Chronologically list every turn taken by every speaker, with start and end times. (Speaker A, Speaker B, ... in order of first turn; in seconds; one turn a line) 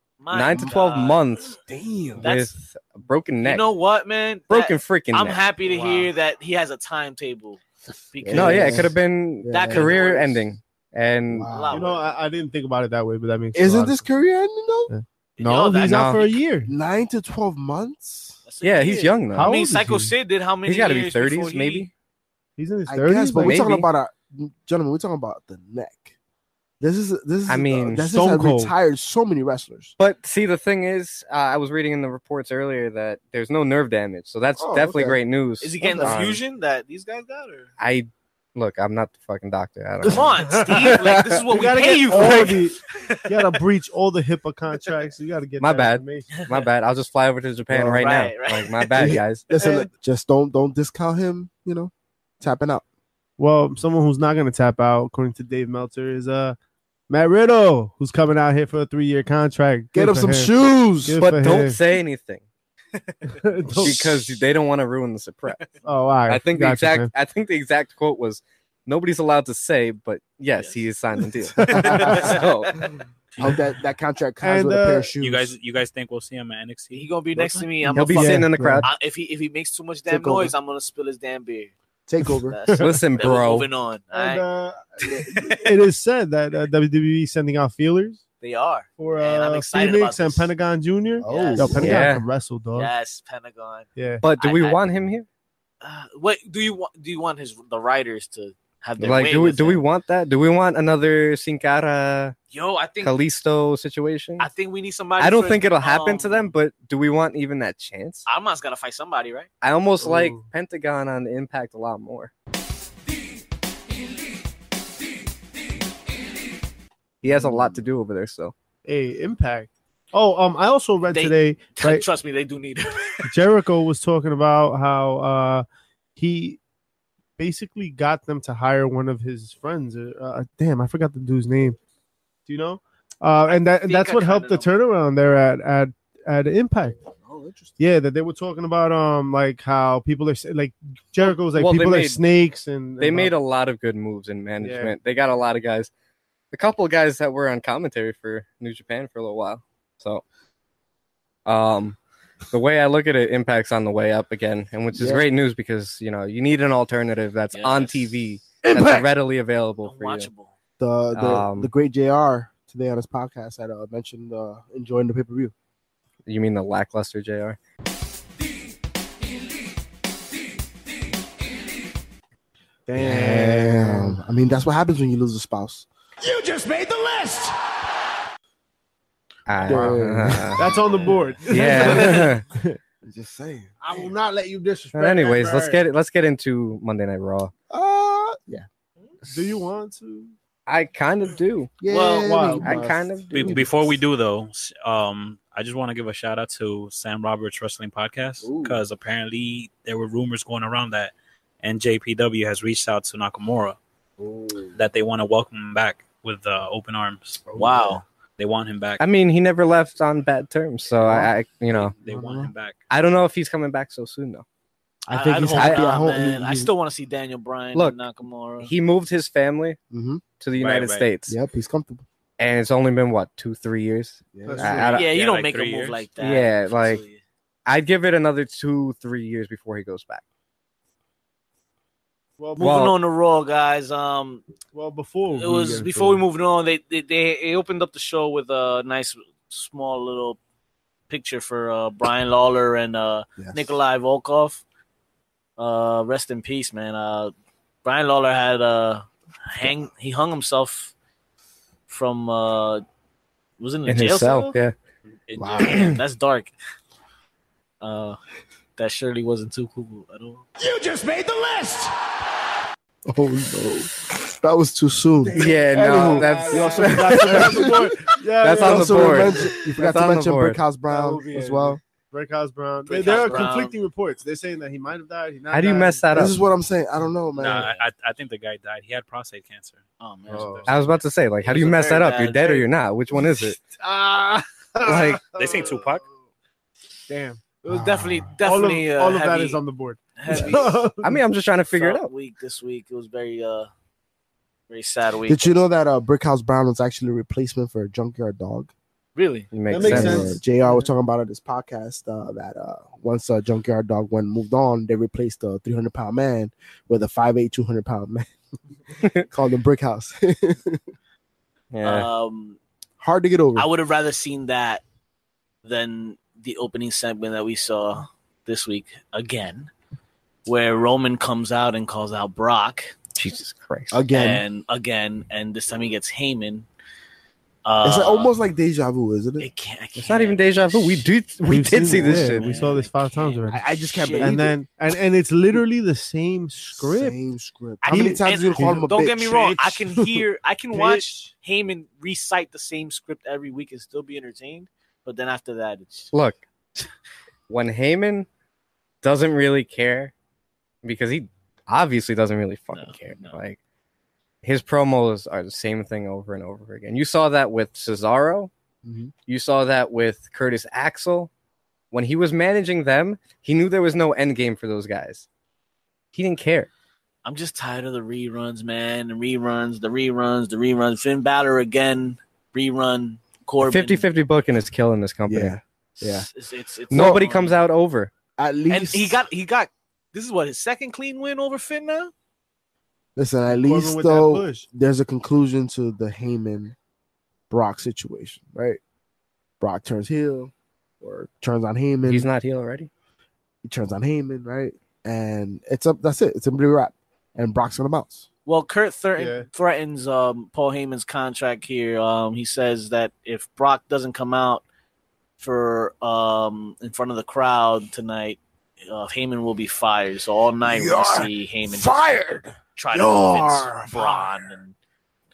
Speaker A: 0.2-1.2
Speaker B: 0.3-1.6
Speaker C: 0.5-0.8
Speaker C: 1.5-2.3
Speaker A: 2.2-2.5
Speaker B: 2.2-3.7
Speaker A: 3.4-8.9
Speaker B: 4.5-5.4
Speaker C: 8.2-10.0
Speaker B: 8.3-11.7
Speaker A: 9.5-10.5
Speaker C: 11.3-11.9
Speaker A: 11.5-12.1
Speaker D: 11.7-14.0
Speaker C: 13.6-14.9
Speaker D: 14.9-16.7
Speaker A: 15.4-16.4
Speaker B: 15.8-16.2
Speaker C: 16.7-18.4
Speaker A: 18.4-21.9
Speaker B: 18.6-19.5
Speaker D: 19.3-20.1
Speaker B: 20.6-21.9
Speaker D: 22.6-23.7
Speaker C: 22.9-26.1
Speaker B: 23.4-23.9
Speaker C: 26.8-29.9
Speaker B: 27.5-28.1
Speaker D: 28.1-28.7
Speaker B: 30.0-36.4
Speaker C: 34.6-35.2
Speaker A: 35.6-37.7
Speaker C: 35.8-36.1
Speaker B: 37.8-41.3
Speaker A: 40.0-43.3
Speaker D: 41.5-46.4
Speaker B: 45.6-49.5
Speaker A: 46.3-46.7
Speaker C: 47.7-48.1
Speaker A: 48.0-49.9
Speaker C: 49.0-52.9
Speaker D: 53.4-56.6
Speaker D: 57.1-60.5
Speaker C: 59.9-61.2
Speaker D: 61.0-61.8
Speaker B: 61.2-62.4
Speaker D: 63.4-64.4
Speaker B: 63.8-65.7
Speaker D: 65.8-67.1
Speaker B: 66.3-72.9
Speaker A: 70.6-70.8
Speaker A: 71.6-72.9
Speaker C: 71.7-72.4
Speaker C: 73.4-75.5
Speaker D: 74.4-75.1
Speaker E: 75.2-77.6
Speaker A: 76.9-81.7
Speaker D: 77.8-78.9
Speaker B: 78.0-78.9
Speaker C: 80.1-80.5
Speaker C: 82.1-82.6
Speaker A: 82.5-84.5
Speaker D: 82.7-83.0
Speaker B: 82.8-83.7
Speaker D: 84.1-88.2
Speaker A: 85.0-85.8
Speaker A: 88.4-90.5
Speaker D: 89.0-92.9
Speaker C: 91.2-92.1
Speaker A: 91.2-91.8
Speaker B: 91.8-92.3
Speaker A: 92.7-94.9
Speaker D: 94.0-94.2
Speaker B: 94.2-95.3
Speaker A: 95.8-99.8
Speaker B: 99.0-102.4
Speaker A: 102.5-103.2
Speaker B: 103.0-104.5
Speaker A: 104.4-106.5
Speaker B: 105.2-108.2
Speaker A: 108.3-109.5
Speaker B: 109.6-112.3
Speaker D: 110.0-110.5
Speaker B: 117.2-118.5
Speaker D: 117.3-117.7
Speaker D: 118.9-122.0
Speaker A: 121.1-123.3
Speaker D: 123.2-125.7
Speaker D: 126.2-126.6
Speaker D: 127.4-131.8
Speaker D: 132.5-137.0
Speaker A: 133.5-134.7
Speaker C: 137.2-137.7
Speaker D: 137.8-143.3
Speaker B: 141.2-142.2
Speaker B: 143.0-145.9
Speaker D: 144.6-144.9
Speaker B: 146.5-150.2
Speaker B: 151.5-152.0
Speaker B: 152.5-160.3
Speaker C: 154.9-155.3
Speaker A: 157.5-158.2
Speaker C: 158.6-159.1
Speaker A: 159.8-160.5
Speaker C: 160.8-165.5
Speaker B: 161.1-161.7
Speaker B: 166.3-167.6
Speaker D: 172.9-174.2
Speaker C: 173.0-175.9
Speaker F: 176.4-177.4
Speaker B: 179.5-180.7
Speaker C: 179.7-180.6
Speaker D: 180.5-182.8
Speaker A: 180.7-182.1
Speaker B: 181.5-182.4
Speaker C: 181.7-182.1
Speaker C: 183.0-183.7
Speaker D: 183.8-185.8
Speaker B: 184.9-187.5
Speaker C: 187.7-188.7
Speaker D: 189.2-190.3
Speaker B: 190.7-191.7
Speaker C: 191.8-193.7
Speaker A: 191.9-192.3
Speaker D: 192.1-192.9
Speaker B: 192.6-193.7
Speaker E: 193.3-203.8
Speaker C: 198.4-198.8
Speaker C: 204.2-204.8
Speaker E: 204.8-207.4
Speaker C: 207.5-208.0
Speaker A: 207.6-208.0
Speaker E: 208.4-209.0
Speaker B: 209.0-211.9
Speaker E: 211.7-212.8
Speaker C: 212.1-212.5
Speaker B: 212.9-214.4
Speaker C: 215.1-216.7
Speaker A: 215.1-218.7
Speaker B: 215.6-215.9
Speaker B: 218.6-219.8
Speaker C: 219.9-220.2
Speaker B: 220.4-221.4
Speaker E: 220.6-221.1
Speaker C: 221.3-222.1
Speaker B: 222.4-225.1
Speaker C: 224.3-224.9
Speaker D: 224.4-225.0
Speaker A: 224.9-227.2
Speaker E: 225.0-226.1
Speaker B: 226.2-227.0
Speaker B: 227.7-230.2
Speaker D: 232.4-232.8
Speaker A: 232.6-234.4
Speaker B: 232.6-233.0
Speaker D: 234.7-236.2
Speaker A: 235.3-240.4
Speaker A: 241.1-244.6
Speaker C: 243.4-243.7
Speaker A: 245.6-247.3
Speaker A: 247.8-250.9
Speaker A: 251.9-252.8
Speaker A: 253.6-254.6
Speaker B: 253.9-254.7
Speaker E: 255.3-255.6
Speaker C: 255.4-255.7
Speaker A: 255.4-256.5
Speaker B: 255.6-256.0
Speaker A: 257.8-258.2
Speaker A: 258.8-260.4
Speaker F: 260.6-261.9
Speaker C: 263.1-271.8
Speaker D: 265.3-269.6
Speaker B: 265.4-267.7
Speaker B: 268.4-270.6
Speaker D: 270.9-276.3
Speaker A: 272.9-273.8
Speaker B: 275.5-276.4
Speaker C: 276.1-277.7
Speaker E: 277.4-280.7
Speaker A: 277.4-277.8
Speaker A: 280.0-280.7
Speaker D: 280.3-280.7
Speaker B: 280.7-283.6
Speaker A: 281.4-282.7
Speaker D: 283.6-286.0
Speaker B: 284.8-285.2
Speaker E: 285.4-286.1
Speaker D: 287.1-287.6
Speaker A: 287.7-289.6
Speaker C: 287.7-288.3
Speaker D: 288.4-291.2
Speaker A: 290.2-290.8
Speaker C: 290.3-290.5
Speaker B: 291.0-292.1
Speaker A: 291.7-293.7
Speaker A: 294.7-295.6
Speaker C: 295.3-298.7
Speaker A: 299.2-299.5
Speaker B: 299.5-300.4
Speaker D: 299.7-300.9
Speaker C: 299.8-308.3
Speaker C: 309.3-310.8
Speaker B: 311.7-312.1
Speaker A: 311.8-312.6
Speaker C: 313.0-313.7
Speaker A: 313.6-314.8
Speaker A: 315.6-319.7
Speaker A: 320.5-322.9
Speaker B: 323.2-324.0
Speaker C: 323.9-324.4
Speaker A: 324.1-326.7
Speaker A: 327.6-328.3
Speaker C: 327.8-329.5
Speaker A: 329.4-331.1
Speaker B: 330.0-332.7
Speaker D: 331.4-333.6
Speaker A: 331.8-334.4
Speaker C: 333.5-334.5
Speaker D: 334.2-337.2
Speaker C: 336.8-339.5
Speaker A: 337.8-346.1
Speaker D: 337.9-340.2
Speaker D: 340.7-341.3
Speaker B: 346.1-346.4
Speaker B: 347.5-348.3
Speaker B: 349.0-350.1
Speaker B: 350.8-353.6
Speaker A: 352.7-353.4
Speaker B: 354.4-358.5
Speaker C: 358.8-359.1
Speaker B: 359.3-361.3
Speaker B: 361.9-365.3
Speaker B: 366.1-366.7
Speaker A: 367.2-374.1
Speaker B: 373.6-375.6
Speaker C: 375.3-376.3
Speaker A: 376.0-377.6
Speaker C: 376.9-377.2
Speaker B: 376.9-378.1
Speaker C: 378.4-379.2
Speaker A: 378.7-382.1
Speaker C: 383.2-386.8
Speaker D: 383.5-384.7
Speaker C: 387.5-388.8
Speaker C: 389.6-392.3
Speaker B: 392.1-392.9
Speaker C: 393.6-398.3
Speaker A: 398.5-404.6
Speaker D: 399.2-399.5
Speaker A: 405.4-412.1
Speaker C: 410.6-414.5
Speaker A: 412.8-414.8